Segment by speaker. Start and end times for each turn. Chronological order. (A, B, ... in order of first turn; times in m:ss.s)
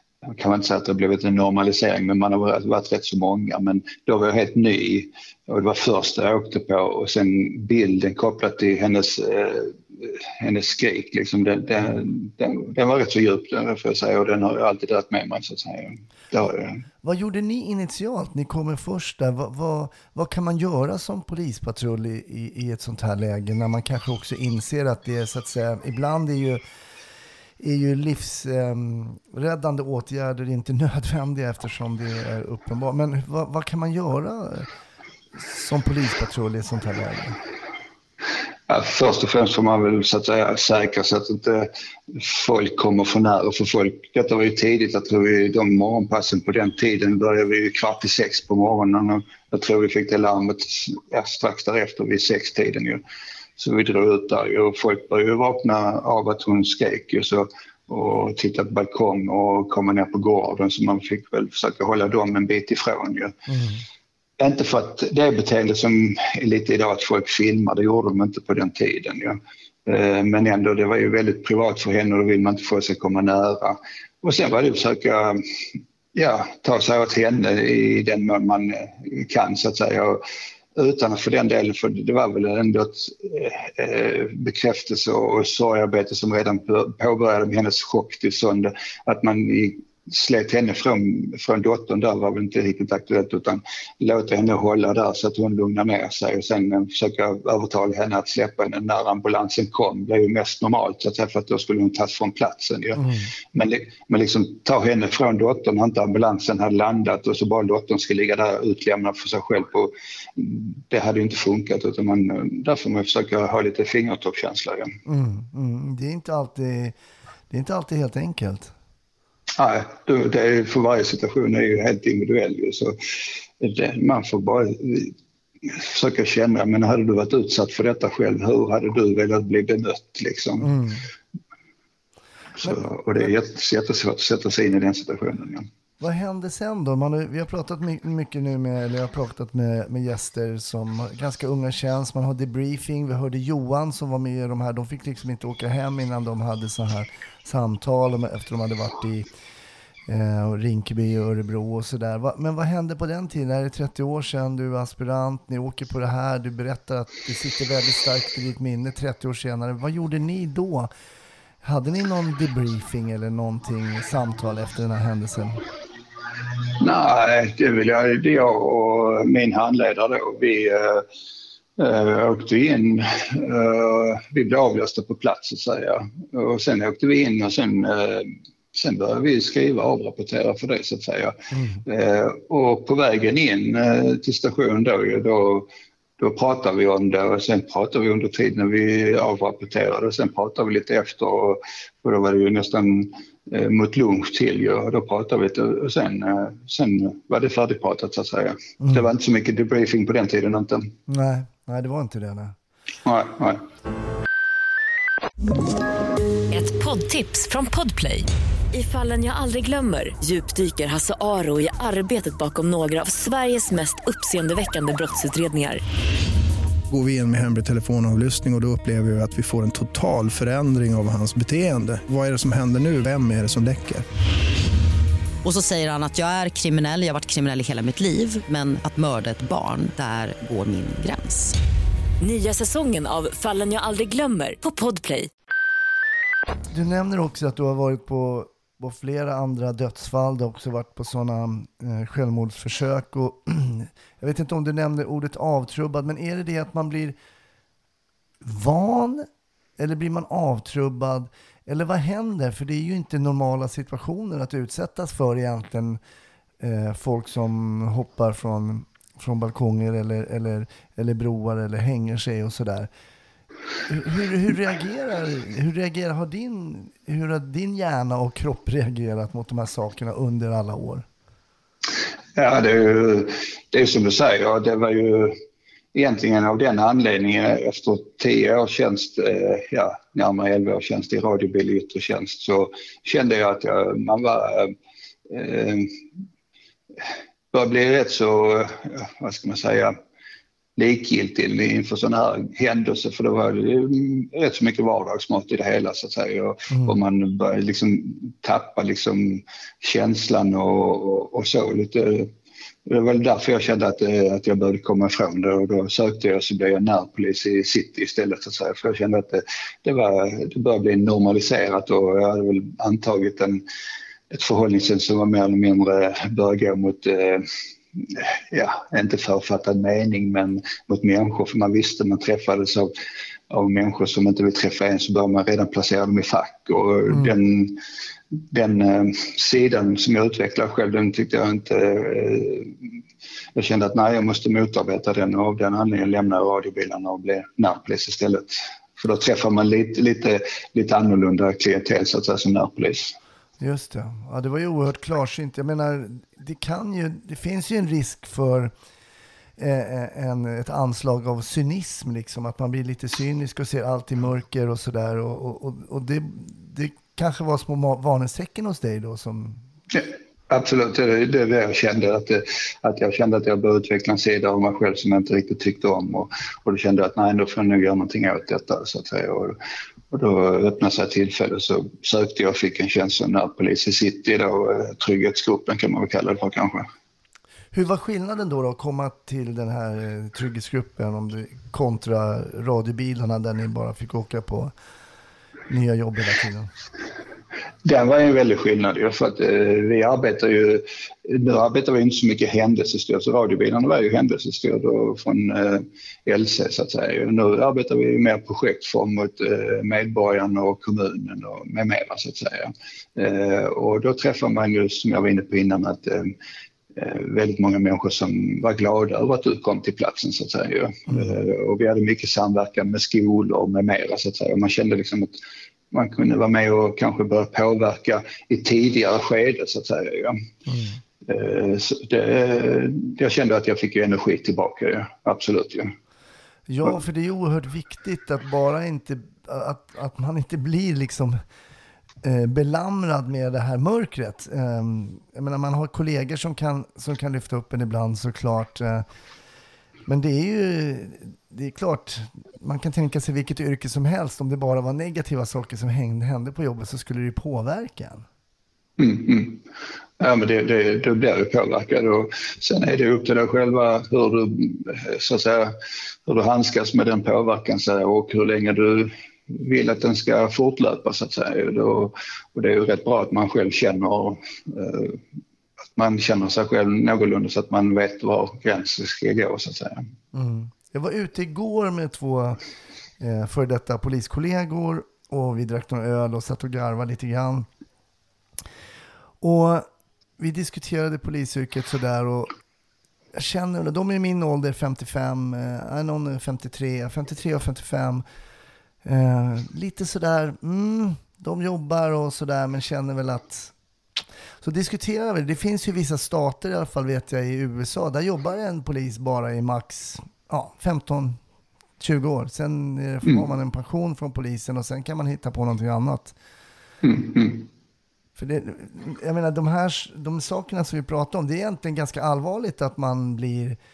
0:00.2-0:16.8 A
0:17.0-0:26.6 B
0:27.6-0:34.7 B
0:35.3-0:37.4 B
0:38.7-0:53.0 A
0:53.6-1:03.4 A
1:03.5-1:03.8 B
1:04.4-1:20.2 A
1:20.8-1:54.9 A
1:43.0-1:43.3 B
1:55.0-1:56.9 B
1:57.5-1:58.7 B
1:59.6-2:03.0 A
2:03.6-2:10.7 A
2:10.6-2:11.0 B
2:12.6-2:13.2 B
2:12.6-2:15.7 A
2:16.0-2:29.3 B
2:30.1-2:40.9 B
2:41.6-2:45.6 B
2:46.8-2:51.1 A
2:51.8-3:05.7 A
3:01.5-3:01.8 B
3:06.2-3:20.9 A
3:21.1-3:22.5 B
3:23.0-3:23.6 A
3:26.5-3:35.8 C
3:36.9-3:44.0 D
3:45.4-3:51.6 E
3:52.2-3:55.3 C
3:56.7-4:07.2 B
4:08.4-4:16.0 B
4:16.6-4:22.9 B
4:23.9-4:31.0 B
4:32.4-4:35.3 A
4:35.9-4:44.7 A
4:45.3-4:46.0 A
4:47.5-4:50.0 A
4:50.8-5:02.3 A
4:56.7-4:57.0 B
5:02.8-5:13.6 A
5:14.3-5:22.9 A
5:23.5-5:27.8 A
5:27.1-5:27.3 B
5:28.5-5:32.8 A
5:33.6-5:43.1 A
5:43.6-5:48.7 B
5:49.6-5:59.6 B
5:59.9-6:09.6 A
6:10.1-6:16.9 A
6:17.7-6:24.7 B
6:25.7-6:26.7 B
6:27.8-6:46.3 A
6:46.9-6:55.4 A
6:55.9-7:00.4 A
7:00.6-7:01.0 B
7:01.2-7:05.9 A
7:06.7-7:11.4 B
7:12.2-7:19.0 B
7:20.0-7:28.2 B
7:29.0-7:29.6 A
7:30.2-7:35.7 A
7:36.3-7:45.2 A
7:45.9-7:50.1 A
7:50.3-7:52.6 B
7:53.2-7:57.7 B
7:59.4-7:59.9 B
8:00.4-8:02.5 B
8:03.3-8:08.2 B
8:09.0-8:13.7 B
8:14.6-8:21.4 B
8:22.0-8:26.4 B
8:27.0-8:27.7 A
8:28.4-8:33.8 B